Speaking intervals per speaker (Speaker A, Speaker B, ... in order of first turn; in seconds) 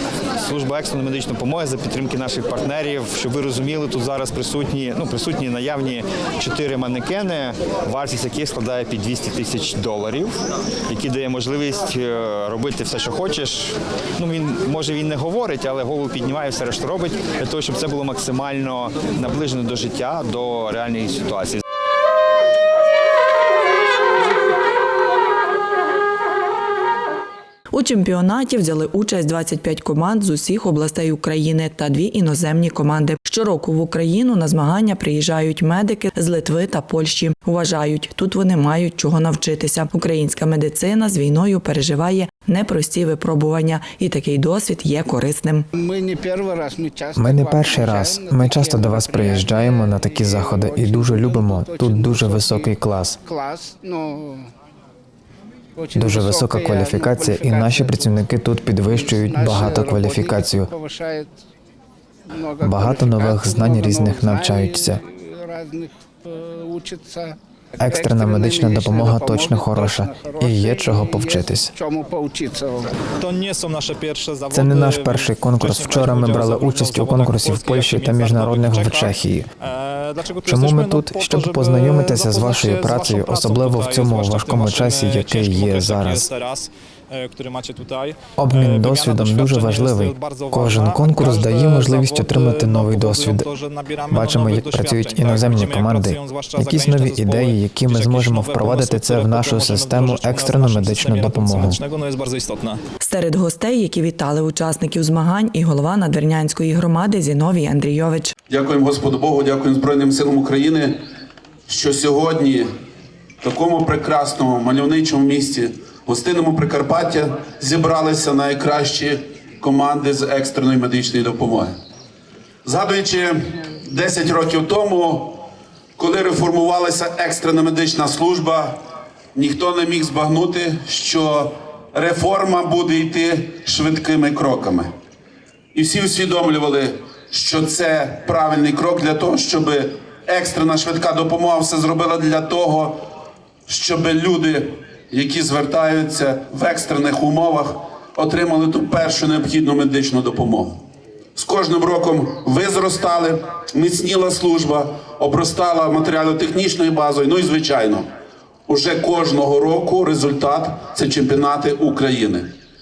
Speaker A: 0.3-21.6
Speaker B: 27.7-45.7, 103.0-108.3
Speaker C: 45.7-52.7, 53.2-54.5, 55.8-58.2, 58.9-61.3, 62.3-72.9
Speaker D: 47.2-53.2, 55.9-60.7, 62.6-65.0, 67.8-71.7, 74.5-79.5, 80.4-86.3, 88.4-93.5, 94.1-101.8
Speaker E: 73.2-102.8
Speaker F: 108.5-111.0, 111.7-112.7, 113.4-121.7, 122.6-125.5, 126.0-128.8, 129.3-134.9, 135.7-143.0, 143.7-150.8, 151.3-158.0, 158.7-162.5